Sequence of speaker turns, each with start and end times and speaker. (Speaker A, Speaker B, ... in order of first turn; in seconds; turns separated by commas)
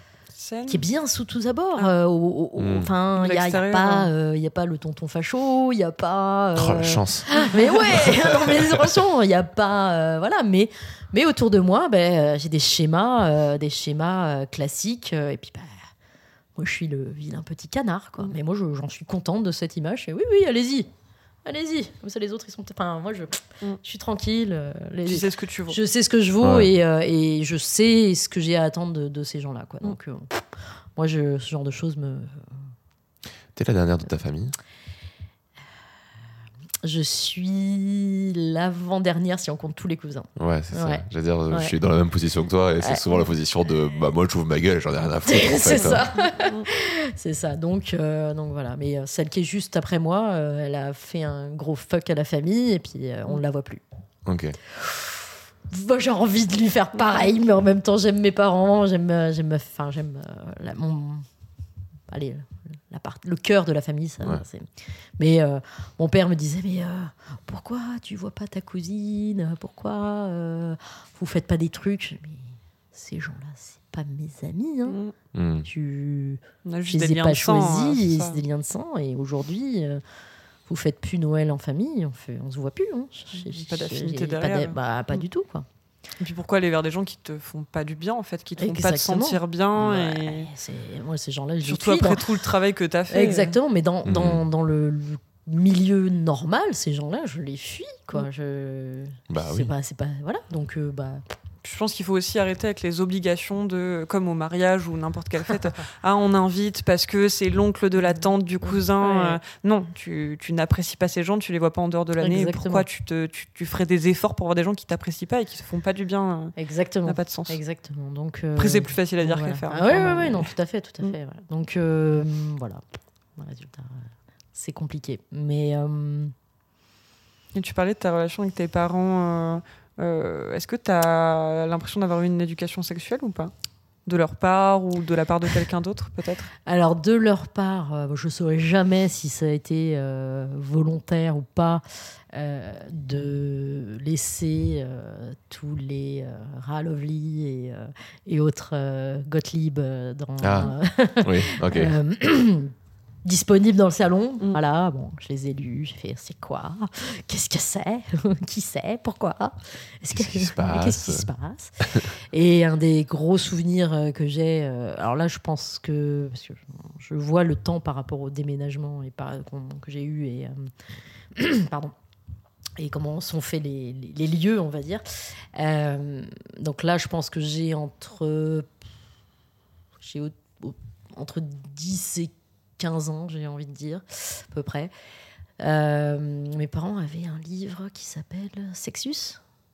Speaker A: 0.3-0.8, Speaker B: 0.7-15.9, Speaker C: 2.6-2.9, Speaker A: 3.2-4.1, Speaker C: 6.6-7.3, Speaker C: 7.9-8.8, Speaker B: 16.6-20.9, Speaker B: 21.4-32.4, Speaker A: 25.1-25.8, Speaker C: 26.4-26.7, Speaker C: 33.5-34.5, Speaker B: 36.8-41.8, Speaker C: 40.4-46.1, Speaker B: 45.3-53.8, Speaker A: 46.4-46.7, Speaker C: 54.2-54.6, Speaker B: 54.7-61.3, Speaker B: 62.1-75.0, Speaker A: 74.9-75.1, Speaker C: 75.3-75.7, Speaker B: 75.7-80.0, Speaker A: 76.7-78.4, Speaker B: 80.7-85.7, Speaker A: 83.3-85.2, Speaker A: 86.2-90.5, Speaker B: 88.6-92.2, Speaker A: 91.6-93.6, Speaker B: 93.1-101.2, Speaker C: 94.0-94.4, Speaker C: 99.3-99.7, Speaker A: 101.6-116.5, Speaker B: 108.6-109.4, Speaker B: 112.2-112.8, Speaker B: 116.6-122.8, Speaker A: 117.1-117.6, Speaker A: 118.6-120.5, Speaker B: 123.4-126.3, Speaker A: 127.5-133.5, Speaker A: 134.1-136.5, Speaker B: 136.7-152.7, Speaker C: 150.4-151.9, Speaker B: 153.2-170.7, Speaker C: 160.1-161.3, Speaker B: 171.3-171.9, Speaker B: 172.8-175.0, Speaker B: 175.5-178.7, Speaker B: 180.0-184.9, Speaker B: 185.6-189.4